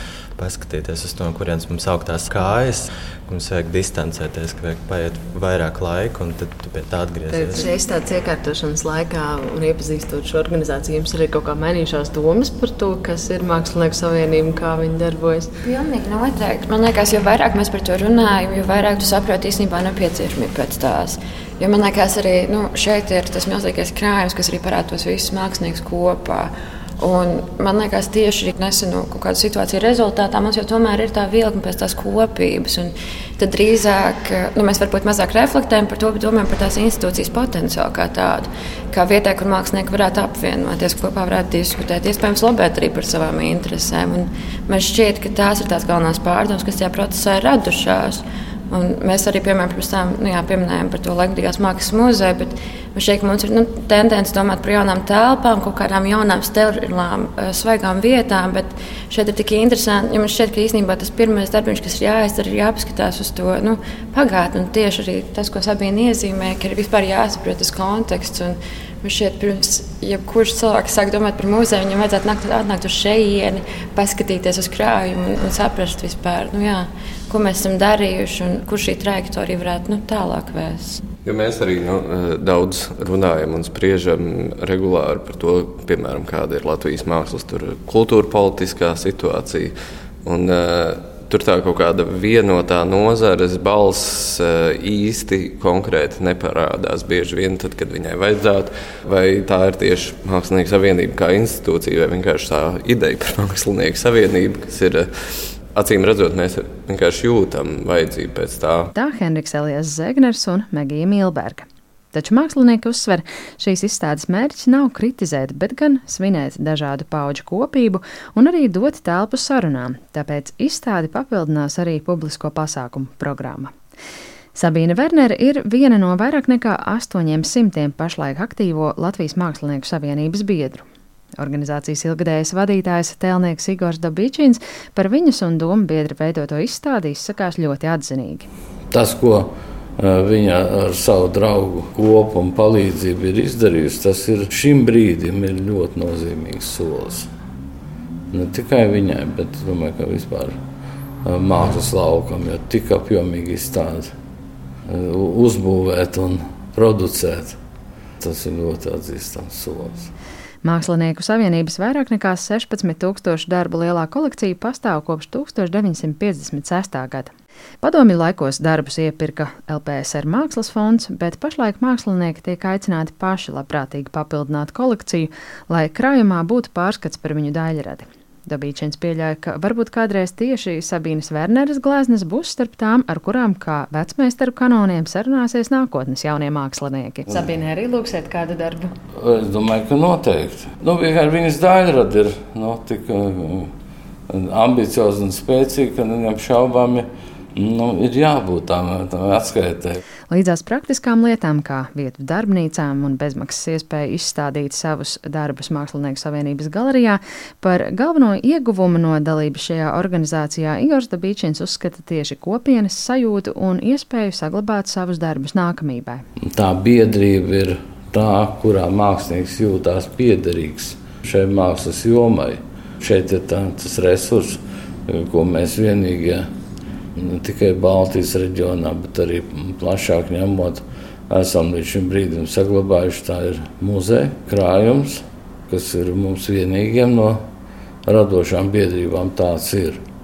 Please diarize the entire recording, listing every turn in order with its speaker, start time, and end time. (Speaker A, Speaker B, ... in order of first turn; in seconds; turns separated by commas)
Speaker A: 0.3-7.7, Speaker B: 7.3-15.5, Speaker C: 15.6-81.0, Speaker D: 81.2-89.7, Speaker D: 90.2-105.1, Speaker D: 105.7-108.9, Speaker B: 108.9-123.7, Speaker B: 124.5-130.8, Speaker B: 131.4-138.5, Speaker E: 138.9-147.3, Speaker E: 148.3-150.6, Speaker E: 151.2-154.1, Speaker E: 154.9-157.6, Speaker E: 158.2-160.1, Speaker B: 160.6-167.3, Speaker B: 167.8-188.9, Speaker E: 189.2-193.7, Speaker E: 194.3-200.0, Speaker B: 200.3-216.2, Speaker E: 216.5-226.5, Speaker E: 227.2-237.4, Speaker E: 238.1-240.0